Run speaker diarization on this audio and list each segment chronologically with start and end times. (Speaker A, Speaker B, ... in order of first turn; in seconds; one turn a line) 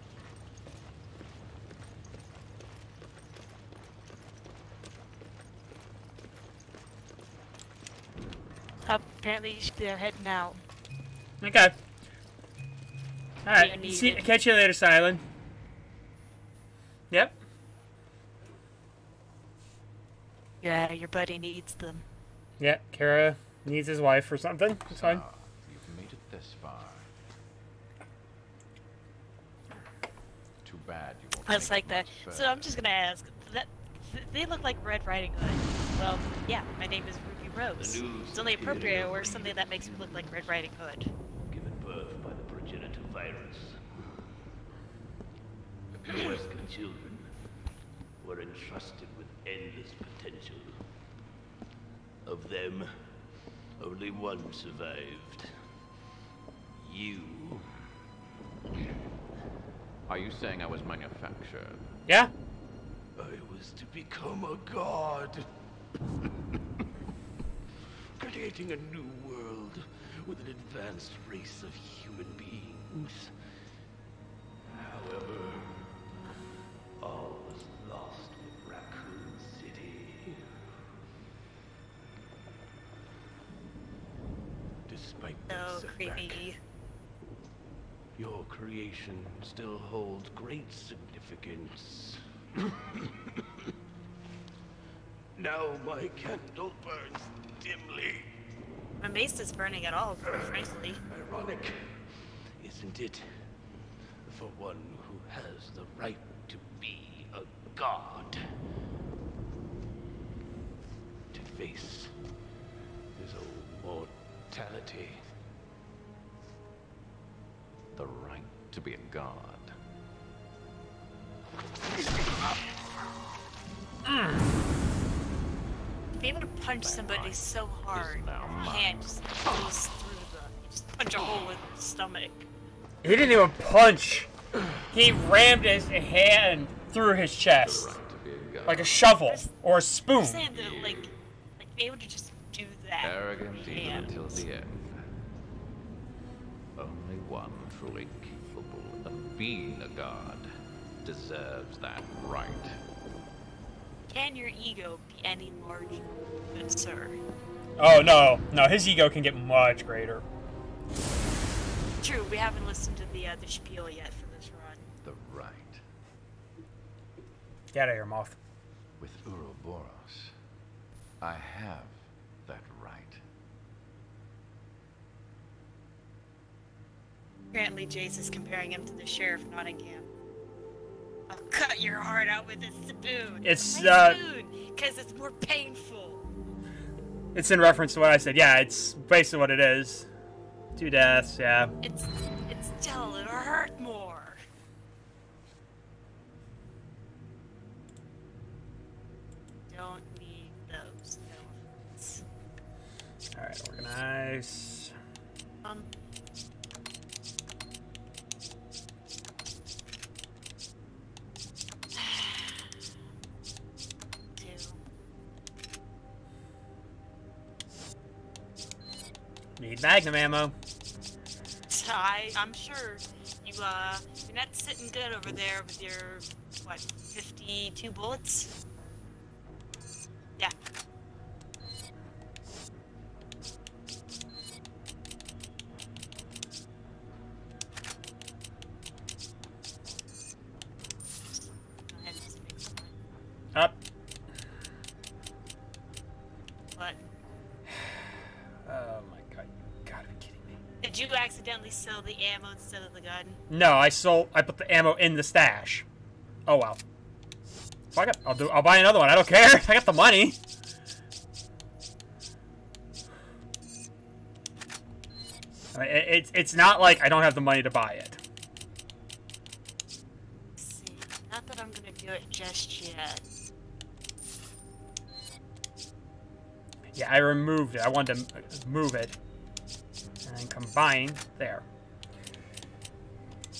Speaker A: 8.8-10.6
Speaker B: 11.4-11.7
Speaker B: 13.4-15.2
Speaker A: 13.5-14.3
Speaker A: 20.6-22.0
Speaker B: 22.6-25.2
Speaker C: 24.9-27.1
Speaker C: 30.6-32.8
Speaker A: 31.4-41.1
Speaker D: 37.8-40.6
Speaker D: 41.3-44.1
Speaker D: 46.0-47.4
Speaker D: 48.2-50.9
Speaker D: 52.2-53.2
Speaker D: 53.8-55.5
Speaker D: 56.8-57.7
Speaker C: 60.1-61.9
Speaker B: 62.1-62.3
Speaker D: 63.1-65.5
Speaker D: 68.2-73.4
Speaker D: 74.7-75.9
Speaker D: 77.0-80.5
Speaker D: 84.9-86.5
Speaker A: 85.5-86.6
Speaker D: 88.2-93.1
Speaker D: 95.3-98.4
Speaker A: 99.0-101.0
Speaker D: 101.1-103.5
Speaker D: 104.2-108.4
Speaker D: 111.3-112.2
Speaker D: 113.1-115.3
Speaker C: 117.9-119.8
Speaker B: 124.0-124.5
Speaker A: 126.2-132.4
Speaker C: 126.8-129.1
Speaker B: 133.0-134.3
Speaker B: 134.9-138.0
Speaker C: 137.5-139.0
Speaker B: 138.6-140.4
Speaker A: 139.2-139.5
Speaker A: 140.2-144.4
Speaker C: 140.4-141.1
Speaker C: 143.0-145.1
Speaker C: 146.8-150.5
Speaker C: 151.0-152.8
Speaker A: 154.1-157.2
Speaker B: 157.8-160.2
Speaker A: 162.0-164.8
Speaker C: 165.0-165.8
Speaker B: 167.7-168.4
Speaker C: 169.0-170.3
Speaker C: 171.2-173.2
Speaker A: 177.5-180.1
Speaker A: 181.3-186.3
Speaker B: 183.4-184.2
Speaker B: 187.3-190.1
Speaker B: 190.7-191.7
Speaker A: 191.8-194.4
Speaker A: 199.7-202.2
Speaker B: 203.3-204.9
Speaker A: 211.9-212.7
Speaker A: 214.3-214.8
Speaker B: 219.6-220.5
Speaker A: 221.7-228.5
Speaker A: 241.3-242.9
Speaker B: 247.7-248.1
Speaker B: 248.6-250.6
Speaker A: 250.8-253.4
Speaker B: 253.5-255.8
Speaker B: 256.4-256.8
Speaker B: 257.9-260.4
Speaker B: 265.7-268.2
Speaker A: 270.6-273.2
Speaker B: 276.9-279.1
Speaker B: 280.2-281.6